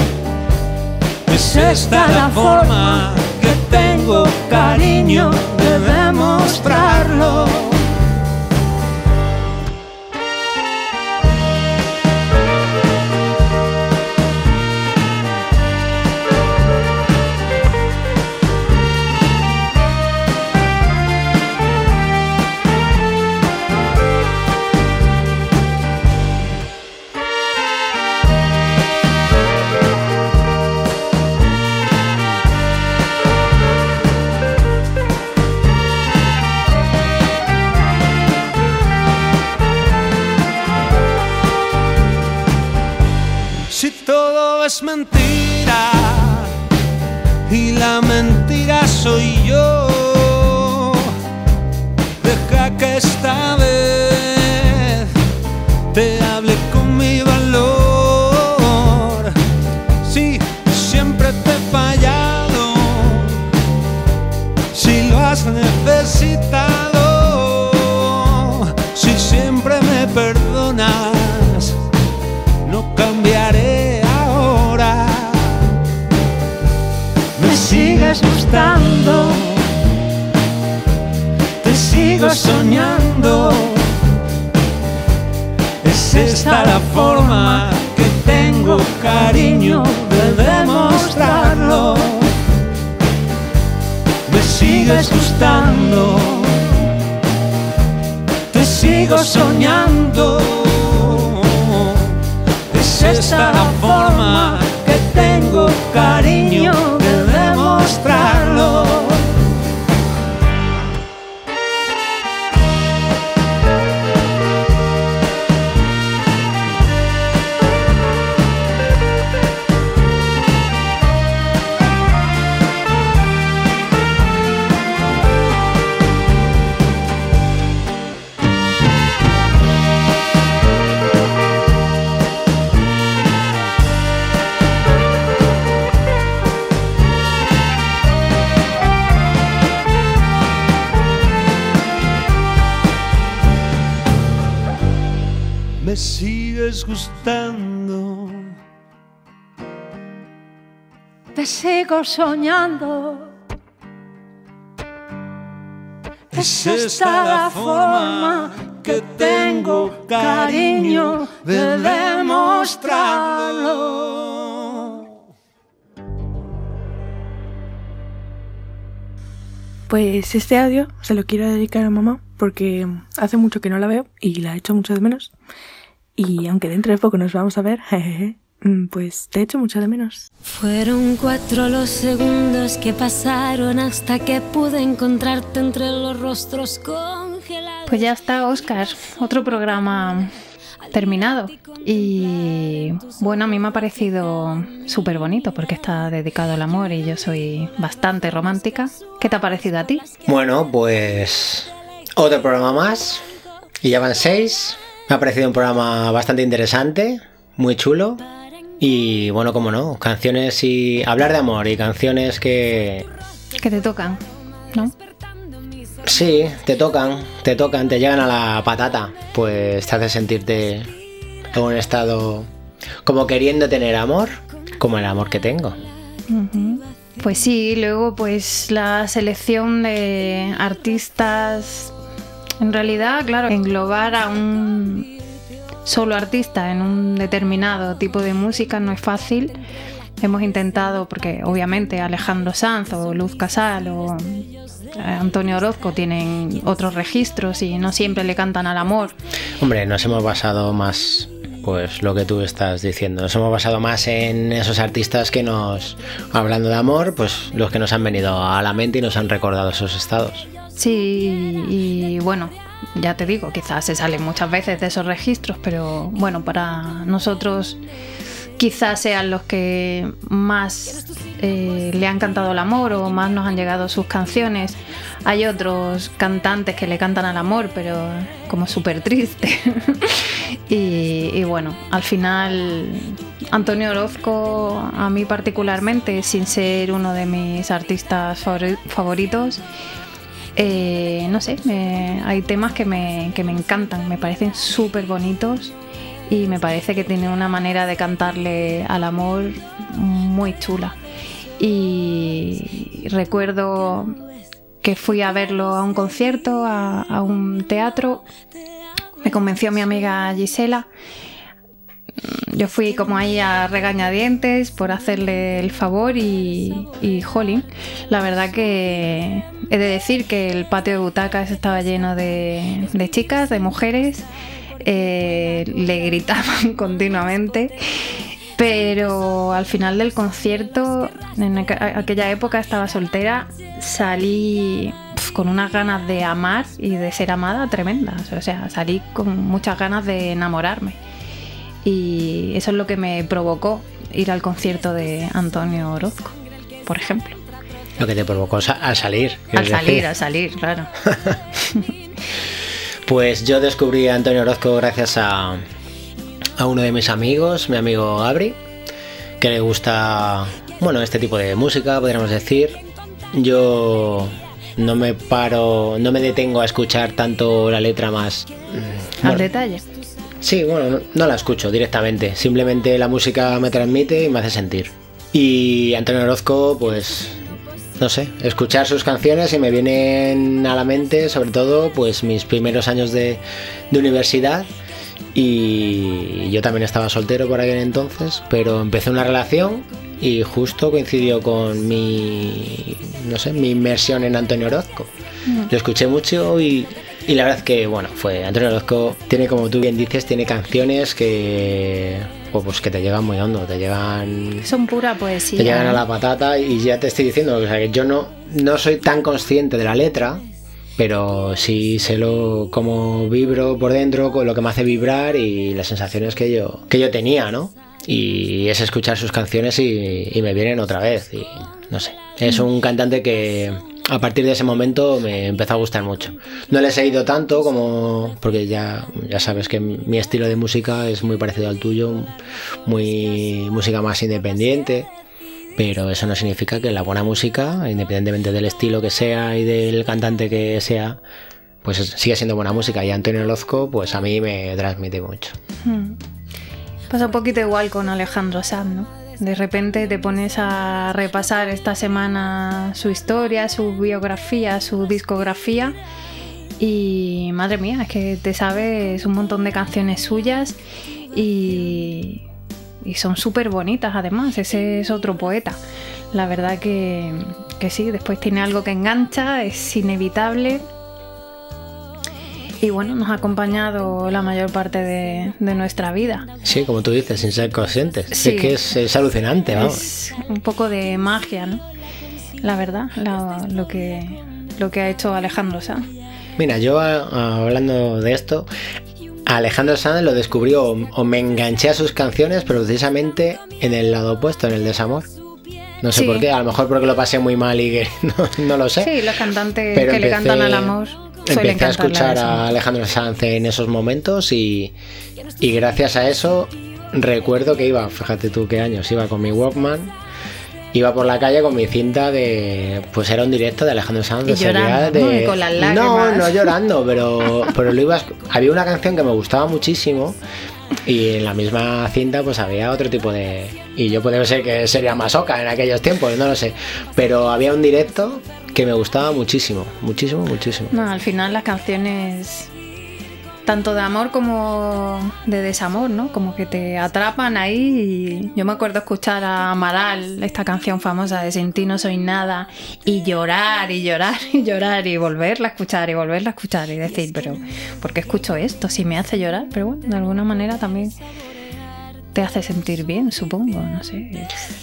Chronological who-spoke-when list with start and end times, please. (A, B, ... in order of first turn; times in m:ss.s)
0:01.3-0:07.8 A
0:01.4-0:07.8 B
0:43.7-0:46.5 A
0:47.5-0:51.2 A
0:52.2-0:55.1 A
0:55.9-0:59.3 A
1:00.0-1:03.4 A
1:04.7-1:11.8 A
1:12.6-1:15.6 A
1:17.4-1:19.6 A
1:17.4-1:19.5 B
1:21.6-1:23.8 A
1:21.9-1:23.5 B
1:25.8-1:32.3 A
1:26.0-1:27.8 B
1:28.4-1:32.3 B
1:34.3-1:36.6 A
1:34.5-1:36.5 B
1:38.5-1:42.2 A
1:38.6-1:40.1 B
1:42.7-1:49.1 A
1:42.8-1:49.1 B
2:25.8-2:28.6 A
2:31.4-2:33.3 B
2:36.3-2:45.0 A
2:36.3-2:44.3 B
2:49.9-2:55.3 C
2:56.2-3:00.2 C
3:00.5-3:07.4 D
3:07.9-3:10.3 E
3:10.9-3:20.1 E
3:20.2-3:23.2 F
3:23.8-3:28.2 F
3:28.8-3:33.1 F
3:33.6-3:34.2 E
3:36.0-3:40.9 F
3:41.5-3:42.5 F
3:43.0-3:45.8 F
3:46.3-3:51.9 E
3:52.6-3:55.1 E
3:55.8-3:59.6 E
4:00.2-4:09.2 E
4:09.6-4:20.5 F
4:20.8-4:27.8 E
4:28.6-4:49.6 E
4:50.6-4:55.8 E
4:56.3-5:01.0 E
5:01.6-5:04.2 E
5:04.8-5:08.3 E
5:09.2-5:10.9 E
5:12.2-5:24.3 E
5:24.8-5:27.8 E
5:28.6-5:41.0 E
5:41.8-5:47.4 E
5:48.0-5:50.1 F
5:49.5-5:50.9 E
5:51.1-5:51.4 F
5:51.6-5:51.9 E
5:53.0-5:55.6 F
5:56.6-5:58.6 F
5:59.4-6:02.8 F
6:03.3-6:09.5 F
6:09.2-6:09.8 E
6:10.4-6:17.4 F
6:18.0-6:24.7 F
6:25.3-6:35.1 F
6:35.7-6:44.7 F
6:44.6-6:46.0 E
6:45.6-6:50.4 F
6:51.0-7:15.1 F
7:15.8-7:21.2 F
7:21.8-7:25.6 F
7:25.8-7:26.2 E
7:27.1-7:36.0 E
7:36.8-7:40.8 E
7:41.3-7:42.4 E
7:43.0-7:45.8 E
7:46.3-7:50.8 E
7:52.8-7:56.5 E
7:56.6-8:00.0 F
7:58.3-7:58.8 E
7:59.7-8:01.8 E
8:02.6-8:06.1 E
8:06.6-8:08.7 F
8:09.5-8:15.3 F
8:16.0-8:19.1 F
8:16.1-8:16.5 E
8:19.0-8:22.7 E
8:19.9-8:24.9 F
8:25.6-8:30.2 F
8:30.9-8:40.4 F
8:34.4-8:36.7 E
8:41.0-8:50.9 F
8:50.9-8:52.7 E
8:53.7-9:11.2 E
9:12.3-9:14.7 E